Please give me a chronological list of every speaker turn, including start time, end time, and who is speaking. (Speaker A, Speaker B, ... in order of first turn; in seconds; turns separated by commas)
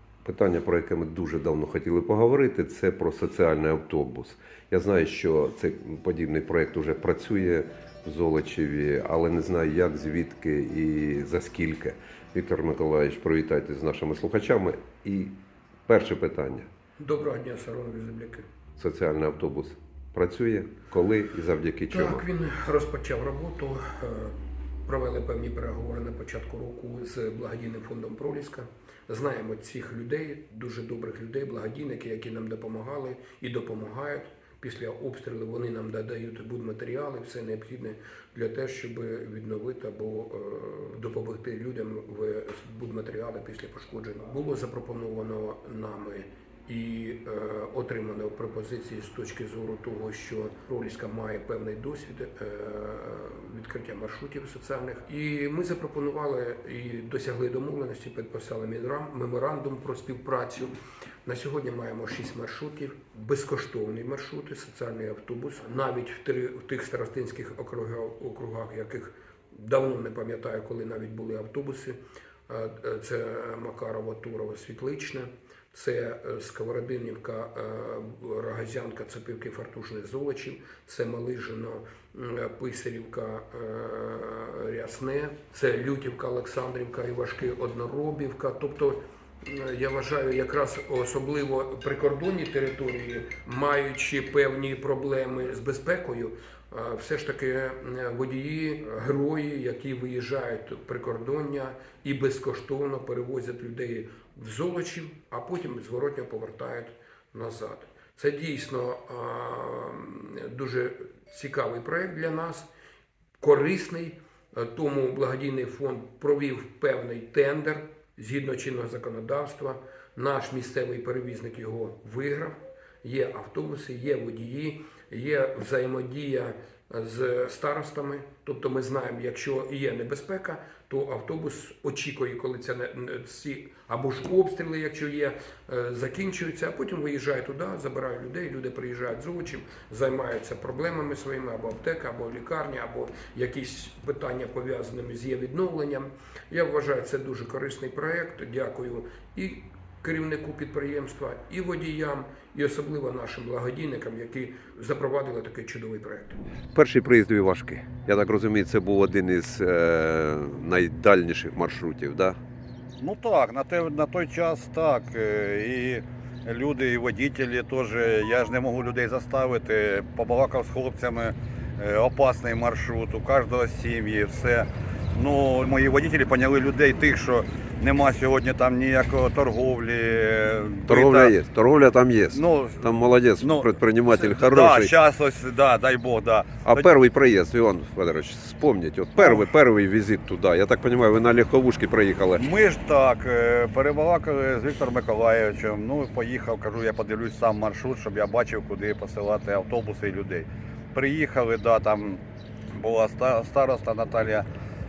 Speaker A: 0.2-16.7, Speaker B: 17.0-18.5, Speaker A: 18.8-22.2, Speaker B: 21.9-112.7, Speaker B: 113.4-156.4, Speaker A: 156.7-162.4, Speaker C: 163.0-181.3, Speaker A: 180.9-184.9, Speaker C: 182.3-186.9, Speaker A: 186.6-192.5, Speaker C: 189.2-189.5, Speaker C: 192.3-202.2, Speaker C: 202.7-204.5